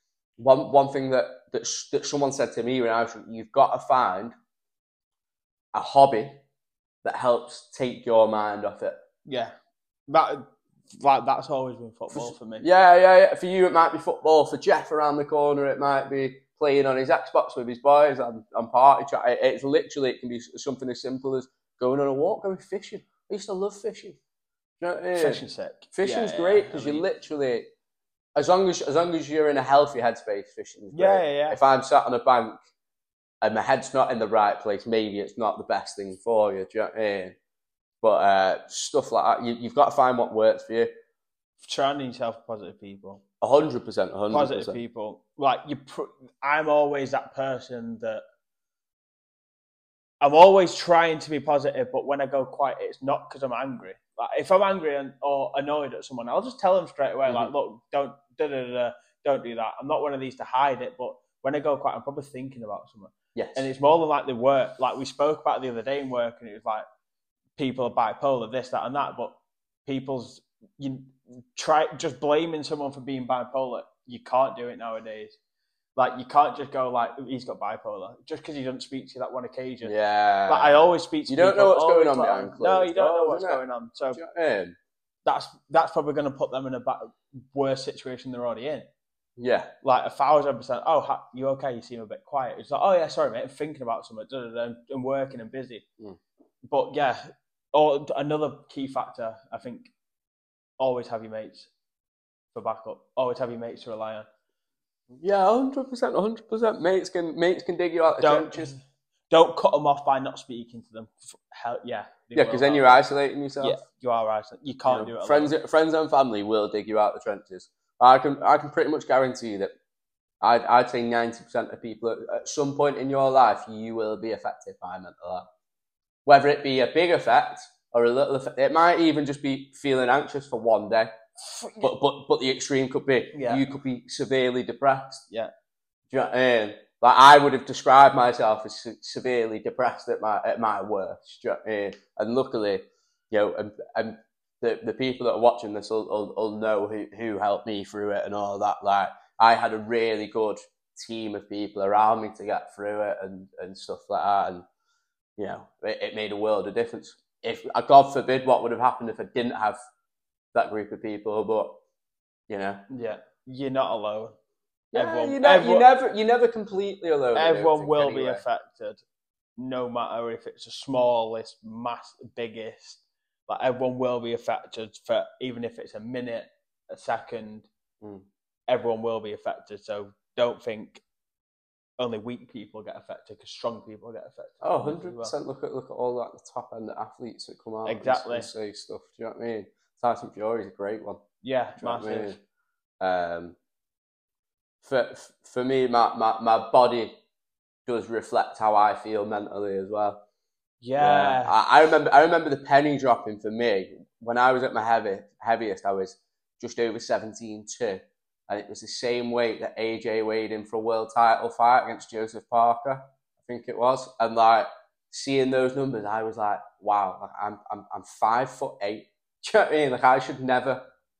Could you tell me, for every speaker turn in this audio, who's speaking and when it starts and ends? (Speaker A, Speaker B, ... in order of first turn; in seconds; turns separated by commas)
Speaker A: 0.4-4.3, Speaker A: 5.7-6.4, Speaker A: 7.0-9.0, Speaker B: 9.3-9.5, Speaker B: 10.1-12.7, Speaker A: 12.1-24.2, Speaker A: 24.8-25.4, Speaker B: 25.1-27.0, Speaker A: 25.9-27.7, Speaker A: 28.4-32.6, Speaker B: 30.9-31.6, Speaker A: 33.4-37.3, Speaker A: 38.0-40.9, Speaker B: 41.6-43.2, Speaker A: 43.4-44.8, Speaker B: 44.3-48.2, Speaker B: 50.2-66.8, Speaker A: 63.3-63.7, Speaker B: 67.6-69.3, Speaker B: 69.8-75.4, Speaker B: 76.0-79.9, Speaker A: 79.8-80.8, Speaker B: 80.5-84.2, Speaker A: 81.3-83.6, Speaker A: 84.1-84.8, Speaker B: 85.2-88.8, Speaker A: 89.4-89.7, Speaker B: 89.8-95.8, Speaker B: 96.7-99.9, Speaker B: 100.8-101.7, Speaker B: 102.5-104.3, Speaker A: 105.1-108.7, Speaker B: 108.2-113.0, Speaker A: 112.3-113.8, Speaker B: 113.6-115.5, Speaker A: 114.9-119.7, Speaker A: 120.4-125.5, Speaker A: 126.2-131.1, Speaker B: 131.4-131.9, Speaker A: 131.8-135.2, Speaker B: 133.3-133.6, Speaker A: 136.1-154.6, Speaker A: 155.4-159.8, Speaker A: 160.5-161.8, Speaker A: 162.5-162.8, Speaker B: 162.9-164.4, Speaker B: 164.9-165.9, Speaker A: 164.9-168.4, Speaker B: 167.3-169.0, Speaker B: 169.6-177.7, Speaker B: 178.7-181.0, Speaker B: 182.0-185.3, Speaker A: 184.6-191.2, Speaker B: 187.8-188.5, Speaker B: 191.4-192.4, Speaker A: 191.8-192.4, Speaker A: 193.0-193.6, Speaker A: 194.8-197.2, Speaker A: 197.9-200.2, Speaker B: 200.8-201.6, Speaker A: 201.0-220.9